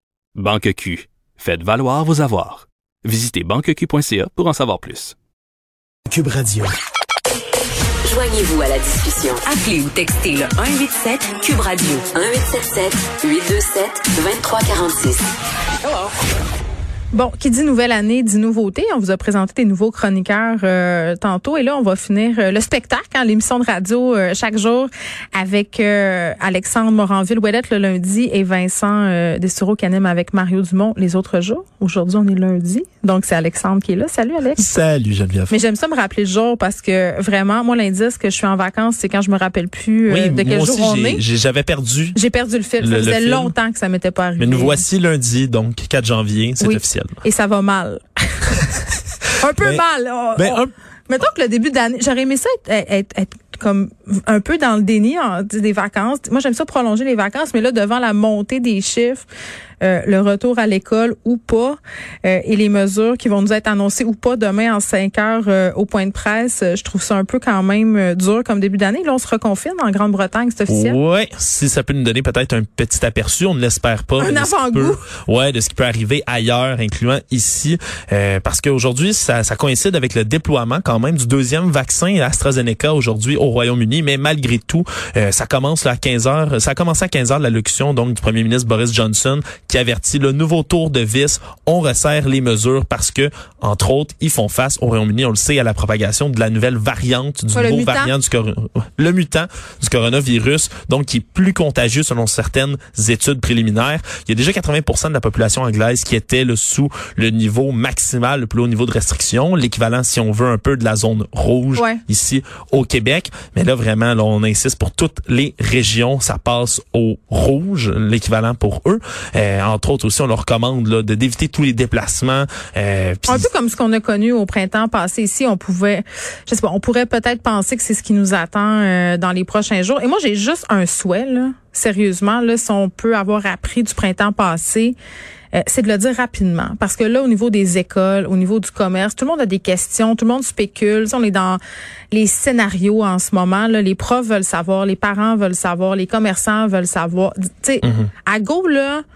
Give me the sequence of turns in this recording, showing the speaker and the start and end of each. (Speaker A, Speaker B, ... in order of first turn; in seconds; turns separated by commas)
Speaker A: 0.3-5.1, Speaker A: 6.2-6.6, Speaker B: 8.0-15.3, Speaker C: 17.1-34.7, Speaker D: 34.6-35.5, Speaker C: 35.5-41.2, Speaker D: 40.1-42.2, Speaker C: 42.1-44.8, Speaker D: 42.8-43.5, Speaker D: 44.4-47.1, Speaker C: 46.6-59.3, Speaker D: 49.6-49.8, Speaker D: 50.4-50.7, Speaker C: 59.8-71.0, Speaker D: 70.7-123.5, Speaker C: 74.2-75.0, Speaker C: 97.5-98.1, Speaker C: 111.8-112.0, Speaker C: 123.3-134.9, Speaker C: 135.5-141.6, Speaker C: 142.1-149.0, Speaker D: 147.8-148.1